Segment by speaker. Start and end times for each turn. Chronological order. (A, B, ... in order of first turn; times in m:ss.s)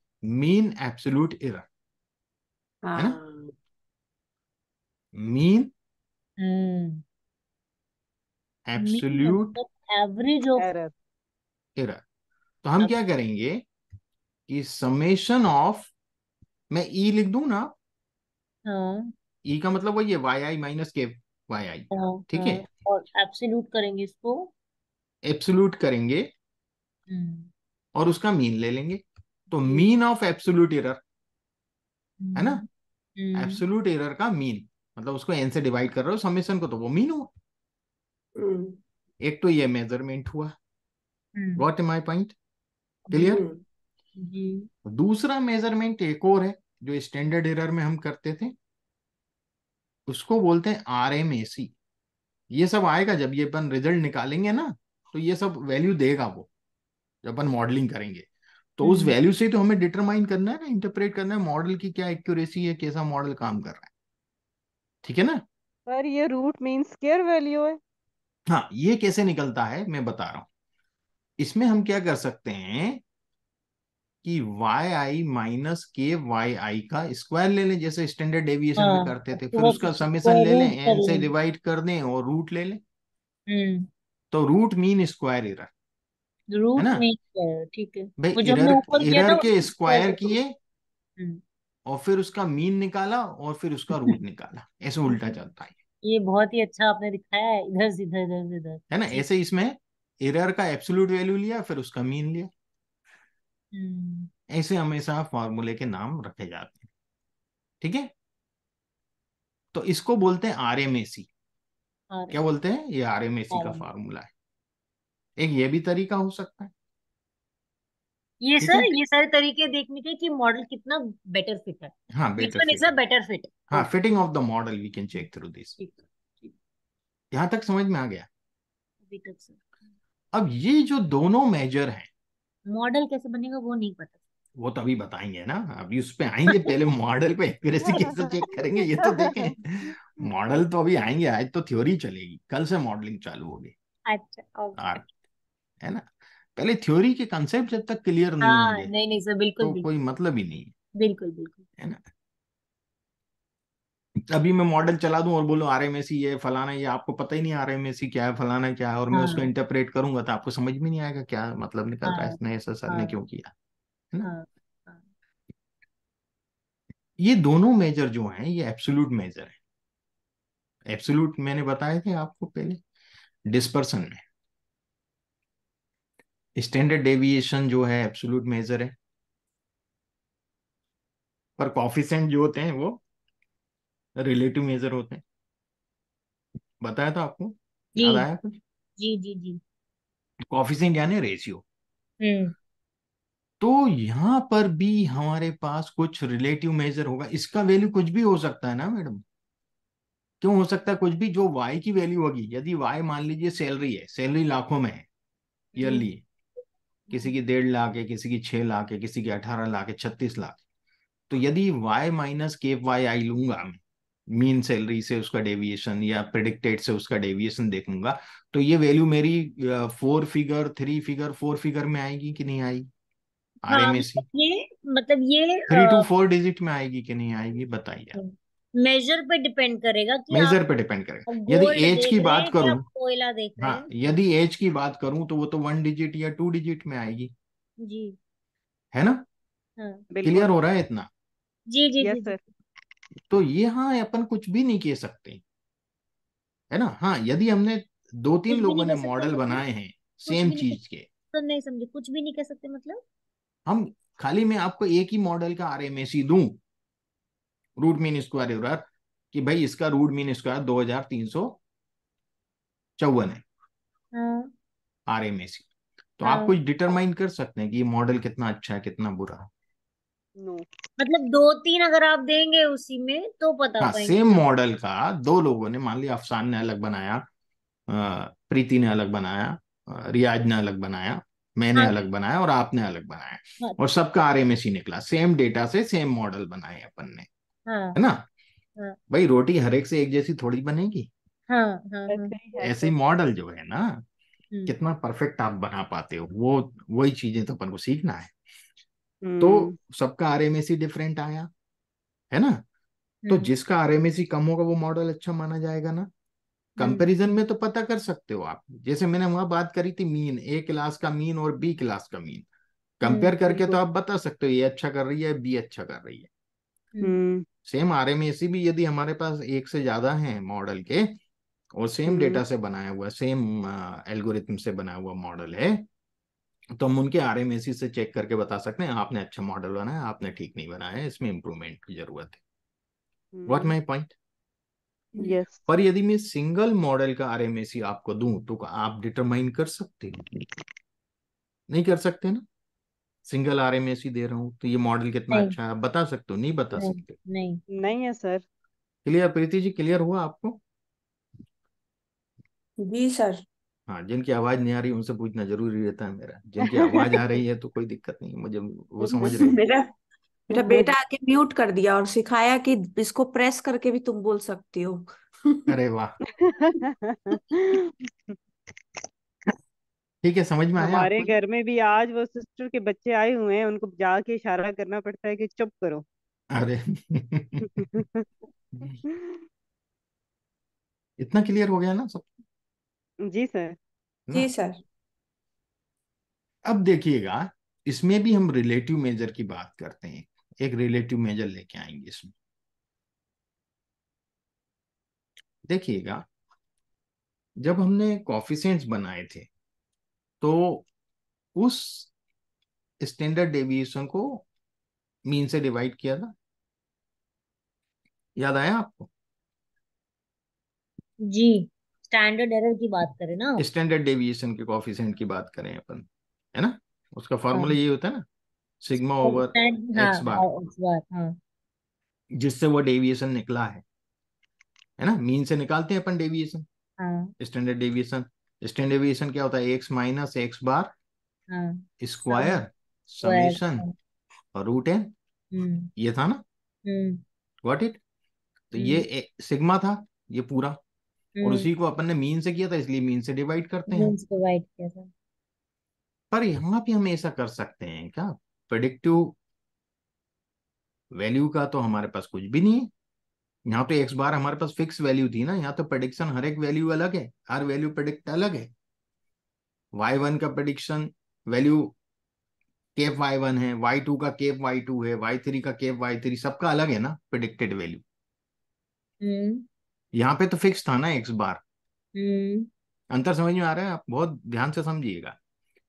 0:00.2-0:01.7 A
0:02.8-0:03.5 B
0:03.0-0:03.2 A
0:05.2-0:05.7 A
0:06.4-0:07.0 C
0:08.7-0:09.6 A
0:08.8-0:10.6 C
0:10.6-0:10.9 D
0:11.8-0:12.0 A
0:12.6-0:13.6 A
0:14.5-0:15.9 A
0:16.7-0:17.8 A
0:18.7-0:19.1 C
0:19.5-0:22.6 A
0:21.9-0:24.5 C
0:25.2-0:26.3 A
0:27.1-0:27.5 C
0:28.0-0:31.0 A
0:32.2-0:32.7 C
0:32.4-0:32.6 A
0:33.2-0:33.6 C
0:33.3-0:37.3 A
0:38.4-0:38.8 B
0:39.2-0:40.6 A
0:41.4-0:41.6 C
0:41.6-0:42.3 A
0:43.1-0:43.4 A
0:43.1-0:43.4 C
0:43.2-0:43.6 B
0:44.2-0:44.7 C
0:44.8-0:48.6 A
0:50.1-0:51.7 A
0:52.5-0:56.5 A
0:57.2-0:58.3 A
0:58.8-1:03.9 A
0:58.8-0:59.2 C
1:05.0-1:05.4 A
1:05.9-1:07.8 D
1:08.5-1:10.5 A
1:11.4-1:13.0 A
1:14.2-1:22.8 A
1:18.8-1:21.3 C
1:23.5-1:23.9 C
1:24.3-1:25.7 A
1:26.5-1:30.4 C
1:26.8-1:27.0 A
1:28.2-1:30.6 A
1:31.9-1:35.8 A
1:35.1-1:35.4 C
1:36.0-1:39.2 C
1:38.9-1:42.5 A
1:43.7-1:44.3 C
1:44.5-1:46.9 A
1:47.8-1:48.1 A
1:49.7-1:51.3 A
1:52.1-1:52.4 C
1:52.3-1:54.3 A
1:53.5-1:53.8 C
1:55.4-1:56.7 A
1:58.4-2:03.9 C
1:58.6-1:58.9 A
2:02.1-2:02.9 A
2:03.7-2:05.8 A
2:05.8-2:06.5 C
2:07.3-2:08.3 A
2:09.1-2:09.6 C
2:10.3-2:12.1 A
2:12.7-2:14.2 C
2:14.6-2:23.8 A
2:24.1-2:25.0 C
2:24.8-2:25.0 A
2:25.8-2:28.9 A
2:28.4-2:29.9 C
2:29.6-2:30.7 A
2:31.0-2:31.6 C
2:34.2-2:43.5 A
2:39.1-2:39.5 C
2:42.0-2:43.2 C
2:44.2-2:45.0 C
2:47.2-2:49.6 A
2:50.9-2:52.8 A
2:53.5-2:54.2 A
2:56.6-2:58.9 A
3:01.6-3:03.0 A
3:04.2-3:05.2 A
3:06.8-3:08.6 A
3:08.0-3:08.2 C
3:09.0-3:09.6 C
3:10.5-3:11.6 A
3:12.2-3:12.5 C
3:13.6-3:19.2 A
3:20.4-3:25.0 A
3:25.8-3:26.1 C
3:25.8-3:26.2 A
3:27.1-3:30.6 A
3:31.3-3:33.8 A
3:34.3-3:42.9 A
3:43.6-3:44.2 A
3:43.7-3:46.1 C
3:45.7-3:48.2 A
3:48.1-3:50.6 C
3:50.3-3:52.8 A
3:51.3-3:53.9 C
3:53.6-3:57.3 A
3:57.8-3:58.2 C
3:58.9-3:59.2 A
3:59.8-4:00.1 C
4:00.1-4:00.6 D
4:00.2-4:01.1 A
4:01.7-4:02.4 C
4:02.0-4:02.4 D
4:03.3-4:05.4 A
4:06.7-4:11.1 A
4:08.5-4:09.6 C
4:10.3-4:10.8 C
4:11.3-4:13.0 C
4:13.7-4:16.6 A
4:17.8-4:21.6 A
4:23.0-4:23.4 A
4:24.1-4:24.5 C
4:25.1-4:25.7 A
4:26.2-4:29.5 A
4:26.2-4:26.6 C
4:30.4-4:30.7 D
4:31.0-4:34.4 C
4:33.8-4:37.2 A
4:37.9-4:47.3 A
4:47.7-4:48.0 C
4:48.0-4:48.2 A
4:49.1-4:51.1 A
4:51.5-4:52.3 C
4:52.1-4:52.9 D
4:52.6-4:54.0 A
4:54.7-4:58.4 A
4:59.2-4:59.8 D
4:59.4-5:01.5 A
5:02.3-5:02.6 A
5:03.3-5:06.1 A
5:06.8-5:12.5 A
5:06.8-5:07.1 C
5:13.0-5:16.3 A
5:13.0-5:13.3 C
5:13.5-5:13.8 D
5:17.0-5:17.4 D
5:17.7-5:21.2 A
5:21.7-5:25.9 A
5:22.1-5:22.4 D
5:26.8-5:32.4 A
5:33.3-5:33.7 D
5:33.5-5:34.1 A
5:35.2-5:35.6 D
5:35.7-5:40.3 A
5:41.7-5:42.4 A
5:43.3-5:47.2 A
5:46.7-5:47.6 C
5:47.7-5:48.4 D
5:49.0-5:50.6 A
5:52.8-5:53.4 B
5:53.9-5:59.6 A
5:56.6-5:57.1 B
5:59.0-5:59.9 B
6:00.5-6:05.8 B
6:00.5-6:00.9 D
6:05.7-6:06.2 A
6:06.3-6:08.4 D
6:10.2-6:11.3 A
6:10.8-6:16.0 D
6:16.5-6:18.0 A
6:17.7-6:18.2 D
6:19.1-6:19.4 D
6:21.2-6:22.3 A
6:23.3-6:23.8 D
6:24.3-6:24.8 B
6:26.7-6:32.3 A
6:35.7-6:36.2 A
6:37.6-6:39.5 A
6:40.4-6:40.9 A
6:41.6-6:42.1 A
6:43.0-6:44.5 A
6:45.3-6:46.3 A
6:48.4-6:49.1 A
6:51.3-6:53.6 C
6:53.6-6:58.2 A
6:58.8-7:00.5 A
6:59.2-7:01.4 C
7:02.4-7:03.8 A
7:05.0-7:06.7 A
7:07.0-7:07.3 C
7:07.4-7:10.9 A
7:11.5-7:12.6 C
7:12.0-7:13.8 A
7:13.2-7:13.9 C
7:14.5-7:15.1 A
7:15.5-7:15.9 C
7:16.0-7:16.4 A
7:16.9-7:17.2 C
7:17.6-7:18.0 A
7:18.7-7:20.8 A
7:18.8-7:19.0 C
7:21.4-7:21.7 C
7:21.4-7:24.2 A
7:23.9-7:25.1 C
7:26.3-7:29.4 A
7:31.1-7:32.9 A
7:33.7-7:38.7 A
7:39.9-7:41.9 A
7:43.0-7:48.0 A
7:49.2-7:49.7 C
7:50.1-7:51.6 A
7:52.2-7:52.7 C
7:53.1-7:55.4 A